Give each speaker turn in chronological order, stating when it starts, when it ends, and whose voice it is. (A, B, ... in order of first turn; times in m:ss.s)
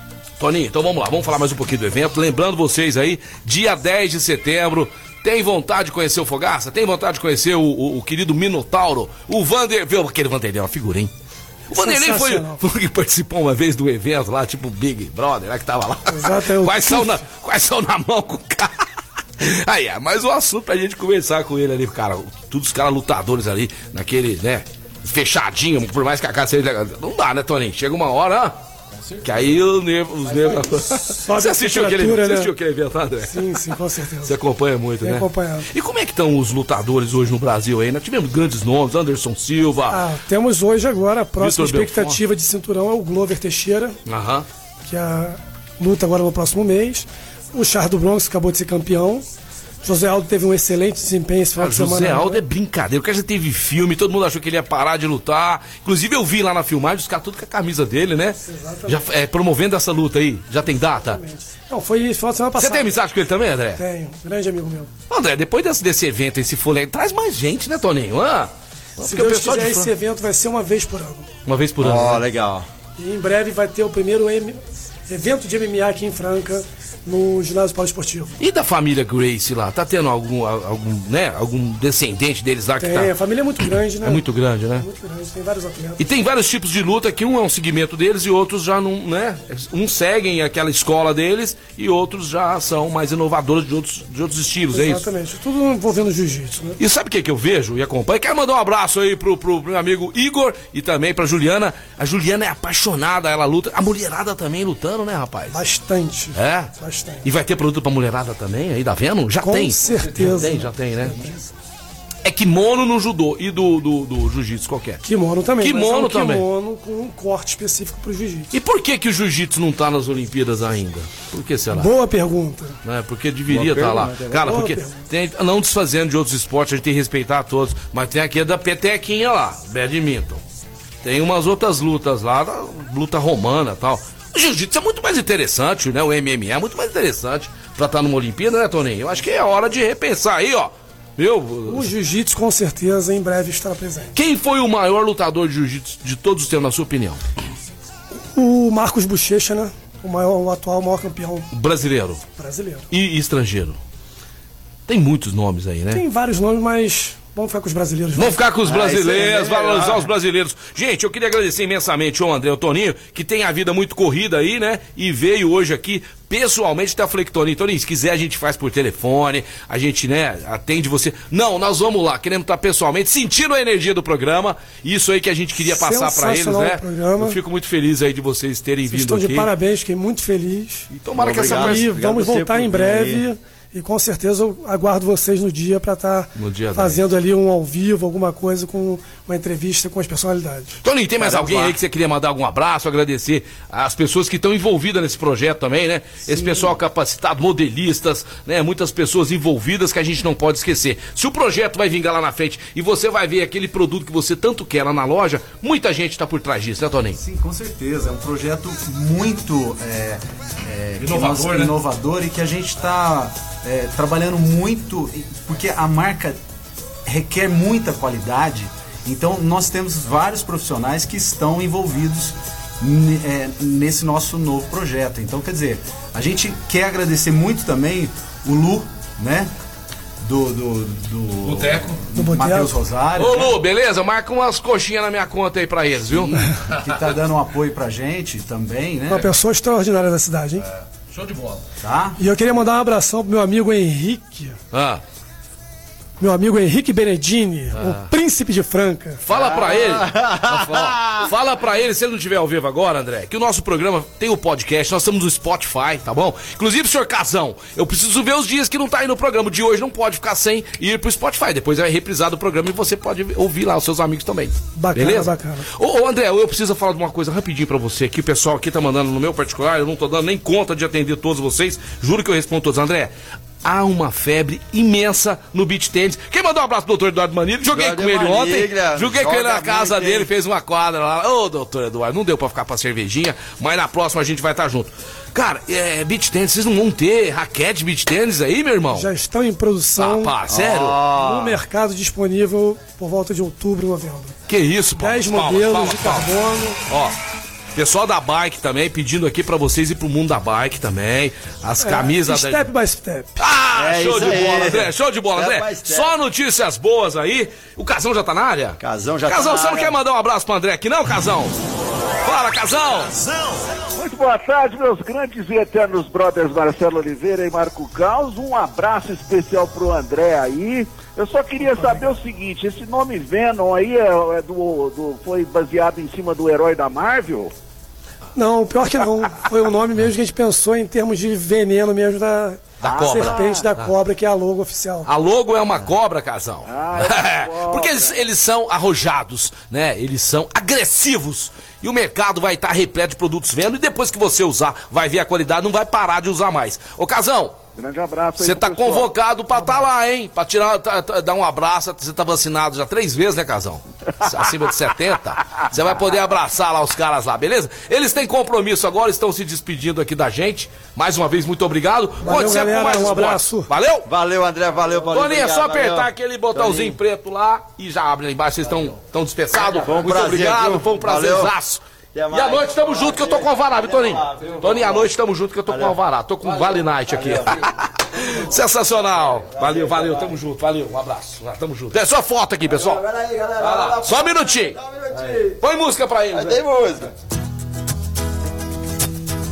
0:00.4-0:11.1 A
0:11.7-0:18.8 A
0:11.8-0:12.6 B
0:16.1-0:17.2 B
0:19.4-0:28.6 A
0:29.2-0:33.6 A
0:31.2-0:32.5 B
0:33.3-0:34.4 B
0:34.2-0:40.0 A
0:35.0-0:35.7 B
0:39.9-0:44.0 B
0:41.4-0:42.2 A
0:44.1-0:44.5 A
0:44.9-0:49.2 B
0:49.8-0:52.4 B
0:51.6-1:01.2 A
0:58.4-0:59.1 B
1:01.0-1:02.9 B
1:02.6-1:03.8 A
1:03.8-1:04.9 B
1:05.1-1:09.9 A
1:09.0-1:11.3 B
1:11.5-1:12.2 A
1:11.8-1:12.7 C
1:13.0-1:18.4 B
1:18.4-1:23.1 A
1:22.8-1:24.2 B
1:24.0-1:24.9 A
1:24.8-1:26.0 B
1:26.0-1:35.0 A
1:34.7-1:36.8 B
1:36.8-1:45.6 A
1:45.5-1:47.2 B
1:46.4-1:46.7 A
1:47.2-1:51.2 A
1:49.4-1:51.5 B
1:52.2-1:55.0 A
1:55.0-1:58.5 B
1:55.6-1:56.5 A
1:58.5-2:01.9 A
2:01.7-2:02.8 B
2:02.8-2:10.4 A
2:03.5-2:04.5 D
2:04.4-2:05.0 B
2:11.0-2:21.9 A
2:21.7-2:24.1 B
2:24.2-2:27.2 A
2:28.2-2:31.5 B
2:31.5-2:32.2 A
2:32.4-2:32.9 B
2:32.9-2:33.8 A
2:34.9-2:36.0 A
2:35.9-2:38.4 B
2:38.2-2:59.5 A
2:38.6-2:40.1 C
2:55.6-2:57.4 B
2:58.9-3:10.8 B
3:00.9-3:01.9 A
3:01.2-3:03.2 C
3:06.4-3:07.0 A
3:10.8-3:27.2 A
3:11.2-3:11.8 C
3:27.2-3:36.4 D
3:31.0-3:31.7 A
3:37.1-3:49.5 D
3:50.2-3:53.5 D
3:51.4-3:52.0 A
3:52.2-3:52.8 B
3:53.2-3:56.7 A
3:56.7-3:59.3 D
3:59.1-4:00.6 B
4:01.1-4:01.6 A
4:01.8-4:02.2 D
4:02.2-4:04.6 B
4:04.7-4:05.0 A
4:06.2-4:09.2 B
4:07.8-4:08.1 A
4:09.2-4:33.1 A
4:09.3-4:11.3 C
4:24.8-4:25.7 B
4:33.6-4:49.1 A
4:37.7-4:40.3 C
4:48.9-4:50.3 B
4:50.0-4:51.0 A
4:50.5-4:51.6 C
4:51.1-4:54.4 B
4:54.5-4:56.3 A
4:55.0-4:56.8 B
4:56.9-4:57.1 A
4:57.8-5:02.7 A
5:01.8-5:03.4 B
5:03.4-5:11.6 A
5:03.8-5:06.1 C
5:08.8-5:10.0 C
5:12.2-5:13.1 A
5:14.0-5:27.5 E
5:28.4-5:35.1 B
5:32.8-5:33.7 E
5:32.8-5:33.2 C
5:32.8-5:33.3 A
5:35.1-5:47.6 A
5:36.7-5:38.2 E
5:47.8-5:49.1 E
5:48.4-6:04.1 A
6:02.2-6:03.7 B
6:04.1-6:07.0 C
6:05.1-6:11.8 A
6:09.5-6:11.5 C
6:12.1-6:15.1 C
6:12.3-6:23.0 A
6:15.7-6:17.7 C
6:19.2-6:20.4 C
6:22.6-6:25.6 C
6:23.6-6:24.8 A
6:25.6-6:26.6 A
6:26.3-6:27.1 C